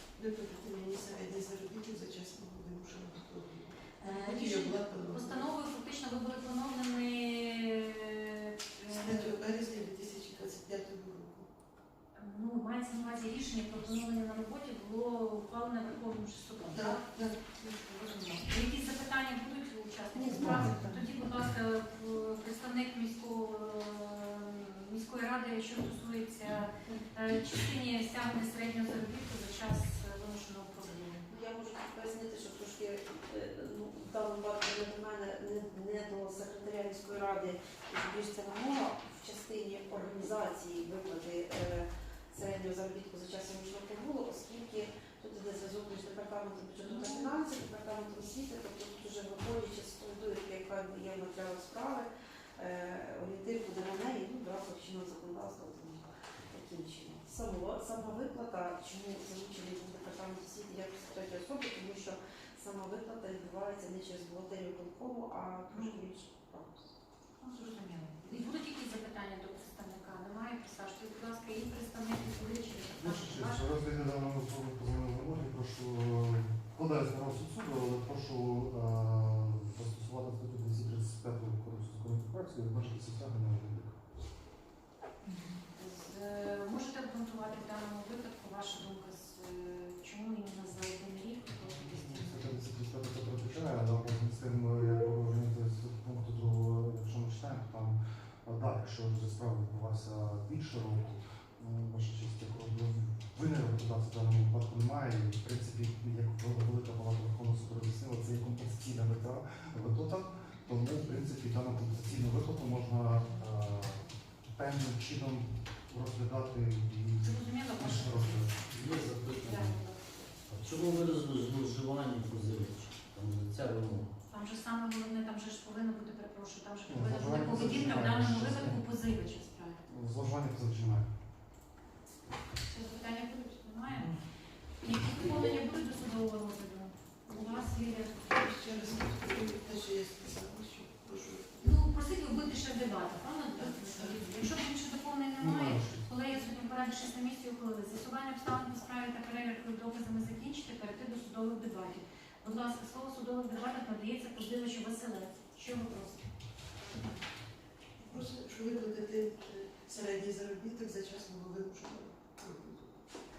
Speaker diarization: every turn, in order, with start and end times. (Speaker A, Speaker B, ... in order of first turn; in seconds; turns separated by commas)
Speaker A: 0.2-5.5, Speaker B: 4.0-9.3, Speaker A: 8.9-11.5, Speaker B: 12.2-17.1, Speaker A: 16.7-17.5, Speaker B: 17.6-31.2, Speaker C: 20.1-21.0, Speaker C: 31.3-67.0, Speaker B: 46.8-47.4, Speaker B: 65.7-66.0, Speaker B: 67.4-73.7, Speaker D: 73.0-84.0, Speaker B: 85.2-92.5, Speaker D: 91.8-118.6, Speaker B: 117.2-118.6, Speaker E: 118.7-119.8, Speaker B: 119.4-120.2, Speaker E: 120.5-124.1, Speaker B: 124.3-129.8, Speaker D: 126.9-128.8, Speaker D: 129.9-131.1, Speaker B: 132.7-134.2, Speaker B: 134.8-139.3, Speaker A: 137.3-137.7, Speaker A: 138.3-141.9, Speaker B: 141.6-156.2, Speaker A: 143.6-144.2, Speaker D: 145.4-146.1, Speaker A: 158.0-163.0